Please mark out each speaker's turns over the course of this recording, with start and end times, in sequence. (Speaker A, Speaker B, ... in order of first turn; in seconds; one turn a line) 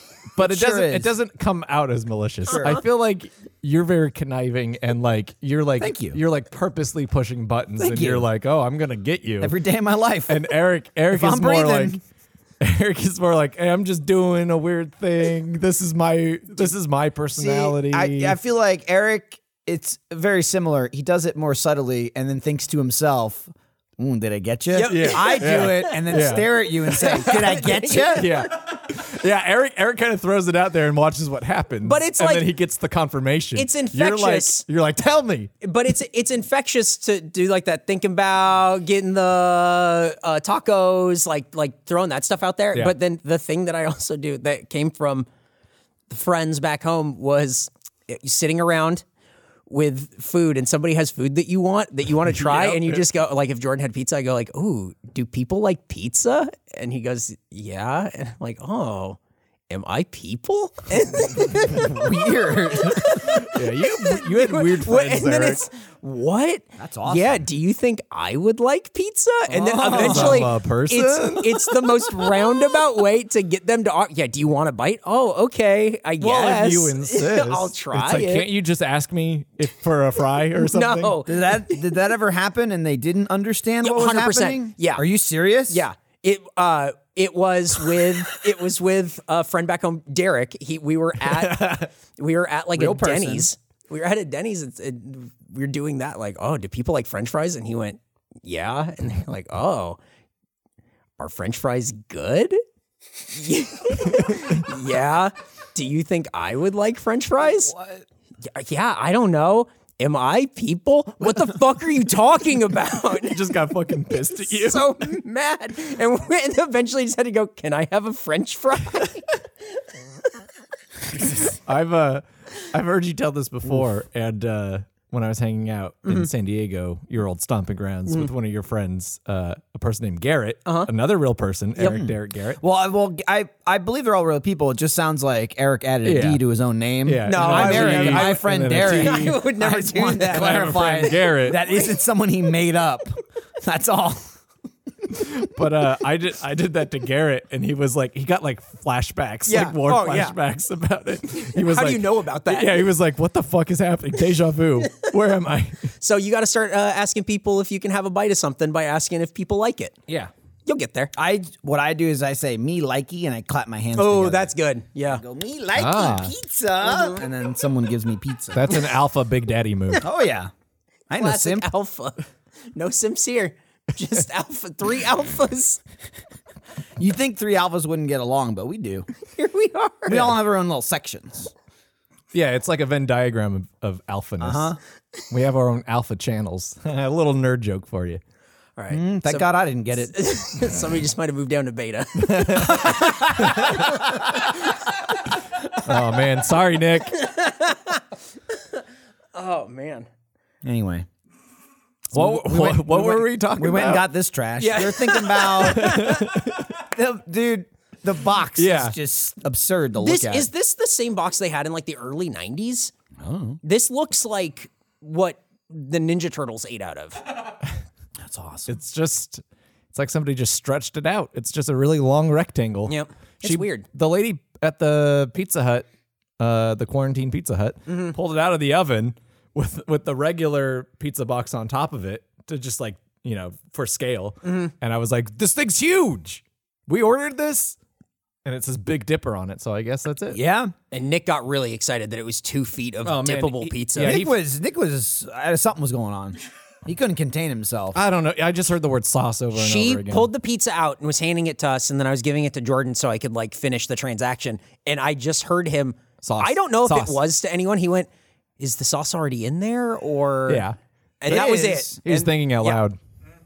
Speaker A: 0.3-9.5
Speaker B: 0.4-1.1
Speaker B: 2.5-2.8
Speaker C: 2.5-2.8
Speaker B: 5.8-6.2
Speaker B: 7.8-8.3
Speaker B: 9.4-10.5
Speaker A: 10.3-12.0
Speaker B: 11.1-12.0
Speaker A: 12.6-18.4
Speaker B: 17.4-28.5
Speaker C: 24.7-26.3
Speaker A: 24.8-35.5
Speaker C: 26.9-28.5
Speaker C: 31.8-32.5
Speaker C: 33.5-34.6
Speaker C: 35.6-45.3
Speaker C: 46.1-49.0
Speaker C: 49.7-59.2
Speaker A: 52.3-53.1
Speaker C: 59.7-78.5
Speaker B: 61.2-63.4
Speaker A: 63.2-65.7
Speaker B: 66.8-67.4
Speaker B: 69.5-70.5
Speaker A: 69.9-72.3
Speaker A: 76.2-81.2
Speaker C: 80.6-81.9
Speaker B: 81.3-85.8
Speaker C: 83.8-85.0
Speaker C: 85.7-100.0
Speaker A: 91.2-91.8
Speaker B: 92.8-93.5
Speaker C: 101.2-102.6
Speaker C: 103.2-107.7
Speaker B: 107.4-108.0
Speaker C: 108.5-113.6
Speaker A: 113.2-115.1
Speaker C: 114.2-119.4
Speaker A: 121.2-132.6
Speaker C: 126.0-126.3
Speaker C: 130.7-130.9
Speaker B: 131.8-144.3
Speaker A: 136.0-136.4
Speaker A: 137.1-139.4
Speaker C: 137.2-141.1
Speaker A: 140.2-141.6
Speaker A: 145.1-155.9
Speaker C: 149.5-150.3
Speaker C: 151.5-152.9
Speaker C: 156.0-160.0
Speaker C: 160.7-161.1
Speaker B: 161.2-164.5
Speaker C: 164.0-165.2
Speaker B: 165.1-168.8
Speaker A: 165.8-166.3
Speaker C: 166.8-167.2
Speaker A: 168.5-170.1
Speaker B: 170.0-170.5
Speaker B: 171.1-171.7
Speaker C: 171.1-175.8
Speaker B: 177.0-179.1
Speaker C: 179.3-180.4
Speaker B: 180.1-181.5
Speaker A: 182.3-184.7
Speaker B: 184.4-184.8
Speaker A: 185.3-188.2
Speaker C: 188.8-194.8
Speaker B: 188.9-190.1
Speaker A: 192.2-194.0
Speaker A: 195.8-197.3
Speaker C: 197.1-198.0
Speaker C: 199.3-200.1
Speaker B: 200.6-201.1
Speaker B: 202.1-210.5
Speaker A: 202.1-204.1
Speaker C: 204.6-206.2
Speaker A: 205.6-206.7
Speaker A: 208.6-209.0
Speaker C: 210.0-212.9
Speaker B: 213.2-213.6
Speaker C: 213.6-217.2
Speaker B: 218.2-218.7
Speaker A: 218.7-225.9
Speaker C: 222.9-223.9
Speaker A: 226.4-237.8
Speaker C: 227.9-228.2
Speaker C: 234.4-234.7
Speaker A: 238.4-240.4
Speaker B: 240.3-240.7
Speaker C: 240.9-244.2
Speaker A: 243.1-244.3
Speaker B: 244.0-248.0
Speaker A: 247.9-250.3
Speaker C: 249.5-258.1
Speaker A: 256.2-257.2
Speaker C: 258.6-260.7
Speaker A: 260.5-260.8
Speaker C: 261.2-262.8
Speaker B: 261.3-262.0
Speaker A: 262.0-263.0